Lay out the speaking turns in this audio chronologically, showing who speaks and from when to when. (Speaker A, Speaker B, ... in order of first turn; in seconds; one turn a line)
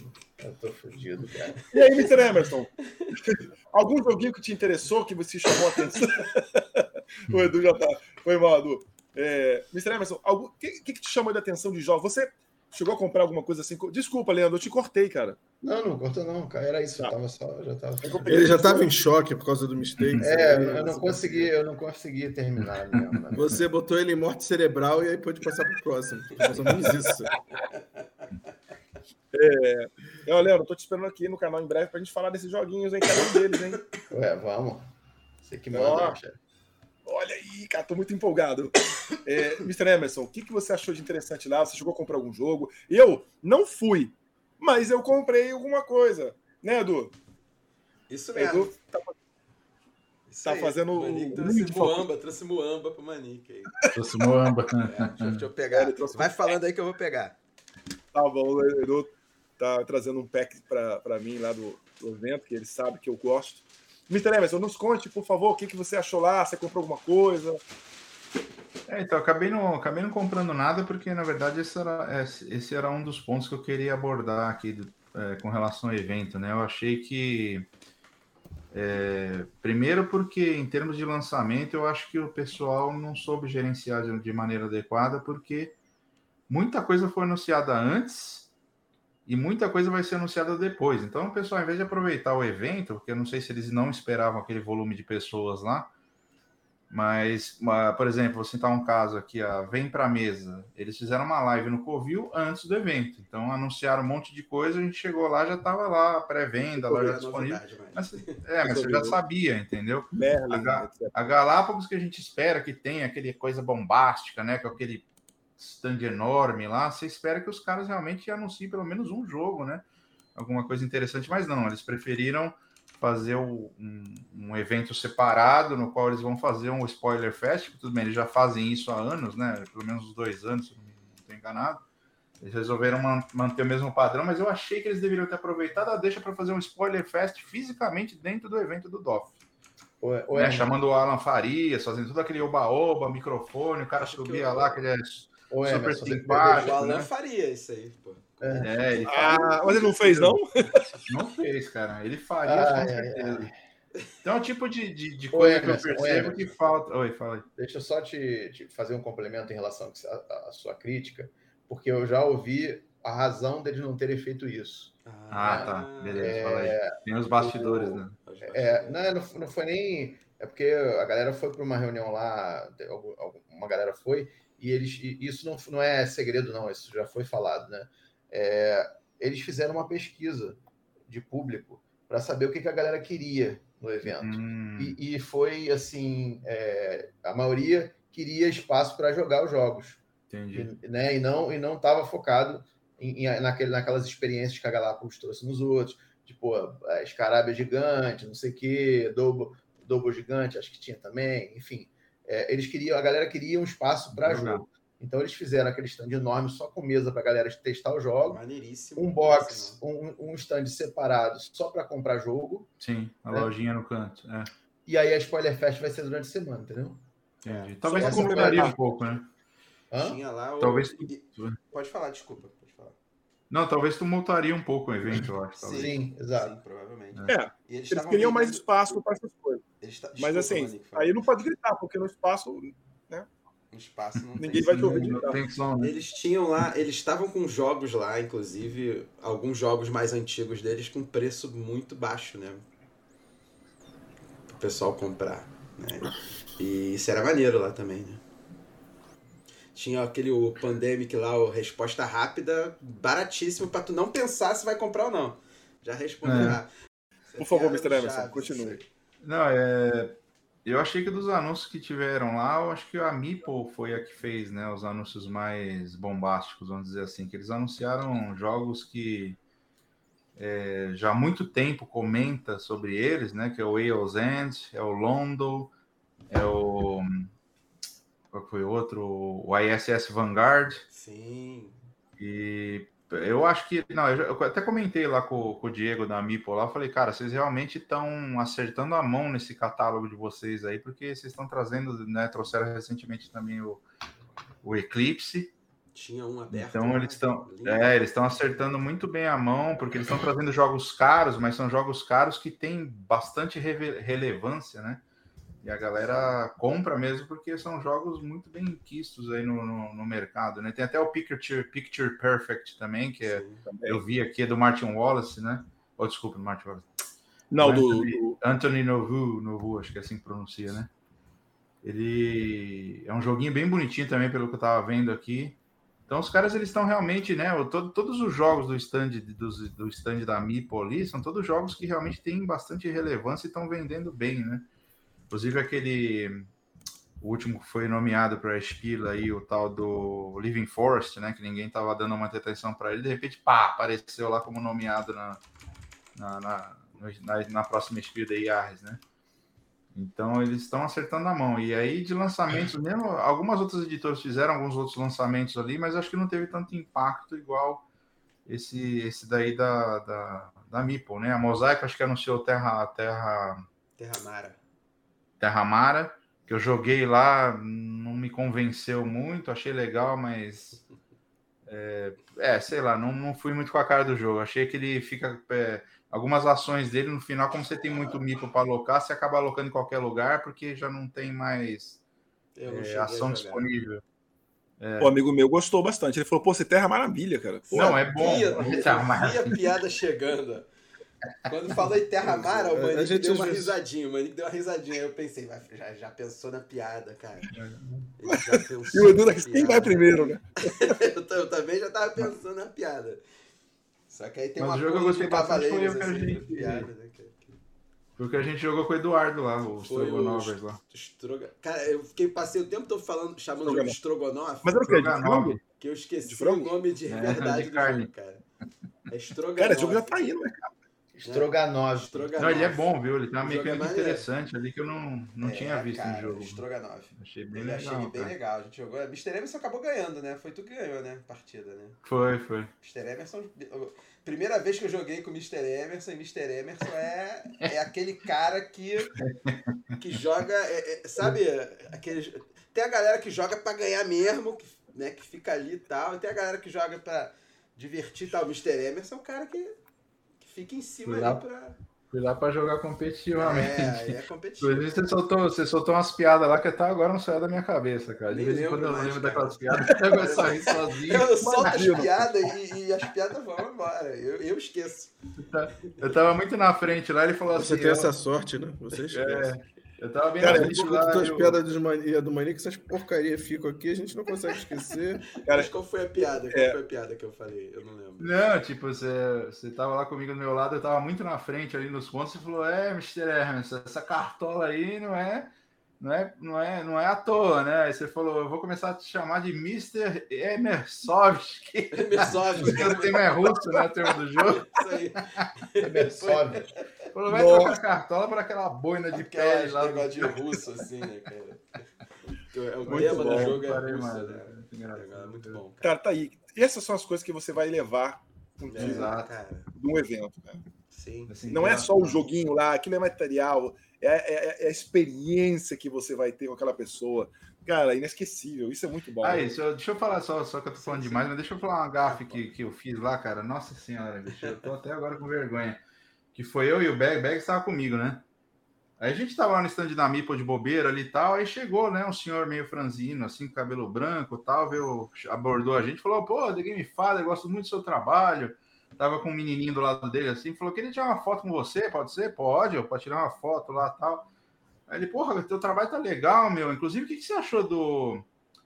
Speaker A: 0.4-1.6
Speaker B: 1.7-15.4
Speaker A: 15.6-18.9
Speaker B: 18.0-18.8
Speaker C: 18.2-21.5
Speaker A: 20.2-23.6
Speaker C: 23.3-27.3
Speaker B: 26.6-26.9
Speaker B: 29.3-33.8
Speaker A: 34.1-34.9
Speaker A: 35.4-36.4
Speaker B: 35.7-36.2
Speaker B: 37.0-47.1
Speaker D: 48.1-48.7
Speaker B: 48.3-49.1
Speaker D: 50.3-53.7
Speaker B: 50.4-52.0
Speaker E: 53.9-55.4
Speaker D: 54.8-57.4
Speaker B: 55.7-56.5
Speaker B: 58.1-67.6
Speaker E: 68.9-77.7
Speaker E: 78.7-85.7
Speaker E: 86.5-88.5
Speaker E: 89.2-95.9
Speaker E: 96.9-115.0
Speaker D: 106.7-108.4
Speaker B: 108.6-109.2
Speaker B: 110.1-111.1
Speaker E: 115.6-131.8
Speaker E: 132.4-139.4
Speaker A: 140.0-140.7
Speaker E: 140.3-147.1
Speaker D: 144.0-144.8
Speaker A: 145.5-146.8
Speaker D: 146.5-149.0
Speaker A: 148.4-150.3
Speaker E: 148.6-149.9
Speaker B: 149.1-150.8
Speaker E: 151.1-153.5
Speaker A: 152.4-153.5
Speaker E: 154.2-157.4
Speaker A: 155.3-156.5
Speaker A: 157.6-164.9
Speaker D: 165.0-166.3
Speaker E: 165.3-168.2
Speaker A: 165.4-208.4
Speaker D: 168.2-169.0
Speaker E: 184.0-184.9
Speaker E: 190.3-190.7
Speaker E: 204.1-204.6
Speaker D: 208.3-209.8
Speaker A: 209.0-212.7
Speaker E: 212.8-214.5
Speaker A: 214.8-217.0
Speaker E: 217.4-219.3
Speaker D: 217.4-217.7
Speaker B: 217.8-218.7
Speaker A: 217.9-218.7
Speaker A: 219.9-220.2
Speaker D: 220.0-222.9
Speaker E: 220.6-221.6
Speaker E: 223.5-225.9
Speaker D: 225.6-228.6
Speaker A: 225.7-226.5
Speaker B: 227.3-229.6
Speaker D: 229.8-231.2
Speaker B: 230.2-233.3
Speaker D: 233.7-242.6
Speaker B: 234.4-235.4
Speaker E: 234.4-235.9
Speaker D: 244.5-248.2
Speaker D: 249.7-256.7
Speaker E: 256.2-256.6
Speaker D: 257.3-258.9
Speaker B: 257.4-258.8
Speaker E: 259.2-269.4
Speaker E: 270.4-275.7
Speaker E: 276.3-277.3
Speaker E: 278.3-280.8
Speaker D: 280.9-281.8
Speaker E: 282.2-293.8
Speaker E: 294.6-295.5
Speaker D: 295.9-298.0
Speaker E: 296.5-305.0
Speaker E: 305.6-316.9
Speaker D: 305.9-306.3
Speaker D: 313.2-313.6
Speaker B: 313.6-314.0
Speaker B: 317.5-318.4
Speaker E: 317.6-320.9
Speaker E: 321.8-334.7
Speaker E: 335.3-336.5
Speaker E: 337.2-345.4
Speaker E: 346.1-349.0
Speaker E: 349.9-357.9
Speaker E: 358.4-363.6
Speaker D: 364.0-364.6
Speaker E: 365.4-370.8
Speaker E: 371.7-382.0
Speaker D: 382.6-383.7
Speaker E: 382.6-384.0
Speaker E: 384.8-385.1
Speaker B: 385.0-388.6
Speaker E: 387.7-389.6
Speaker D: 387.7-390.6
Speaker D: 391.5-397.5
Speaker C: 392.2-393.8
Speaker E: 397.5-397.8
Speaker D: 398.2-403.2
Speaker B: 398.3-400.9
Speaker D: 404.1-407.6
Speaker E: 404.6-406.9
Speaker E: 408.2-410.8
Speaker D: 409.8-414.9
Speaker B: 413.6-414.0
Speaker B: 414.6-415.6
Speaker E: 414.9-415.6
Speaker D: 415.8-418.4
Speaker B: 416.2-416.7
Speaker E: 417.1-418.1
Speaker D: 419.1-420.2
Speaker B: 419.6-420.7
Speaker A: 421.1-422.4
Speaker D: 421.2-422.9
Speaker E: 422.4-426.6
Speaker D: 423.4-424.2
Speaker D: 425.4-432.0
Speaker E: 427.1-428.3
Speaker E: 432.0-432.7
Speaker D: 432.8-439.1
Speaker E: 439.2-439.7
Speaker D: 440.0-449.8
Speaker D: 450.4-451.8
Speaker E: 451.1-451.4
Speaker E: 452.1-462.1
Speaker D: 453.4-454.9
Speaker D: 458.3-465.1
Speaker B: 461.4-462.1
Speaker E: 465.4-468.1
Speaker C: 467.5-469.5
Speaker E: 469.1-471.6
Speaker B: 470.4-471.1
Speaker C: 470.5-475.4
Speaker D: 475.4-478.3
Speaker B: 475.4-475.7
Speaker B: 476.5-476.8
Speaker E: 478.2-495.4
Speaker D: 491.9-496.9
Speaker A: 495.8-496.7
Speaker E: 497.1-500.4
Speaker B: 497.3-497.8
Speaker D: 499.1-501.8
Speaker D: 502.4-505.9
Speaker B: 502.9-503.6
Speaker E: 502.9-505.6
Speaker B: 505.8-509.2
Speaker D: 508.7-509.7
Speaker E: 508.8-509.3
Speaker B: 509.7-510.6
Speaker D: 510.9-511.4
Speaker E: 511.3-512.2
Speaker B: 511.5-519.5
Speaker E: 519.2-525.8
Speaker D: 520.8-521.3
Speaker D: 522.0-522.4
Speaker D: 524.4-524.7
Speaker E: 526.3-528.2
Speaker E: 529.0-544.3
Speaker E: 544.9-548.2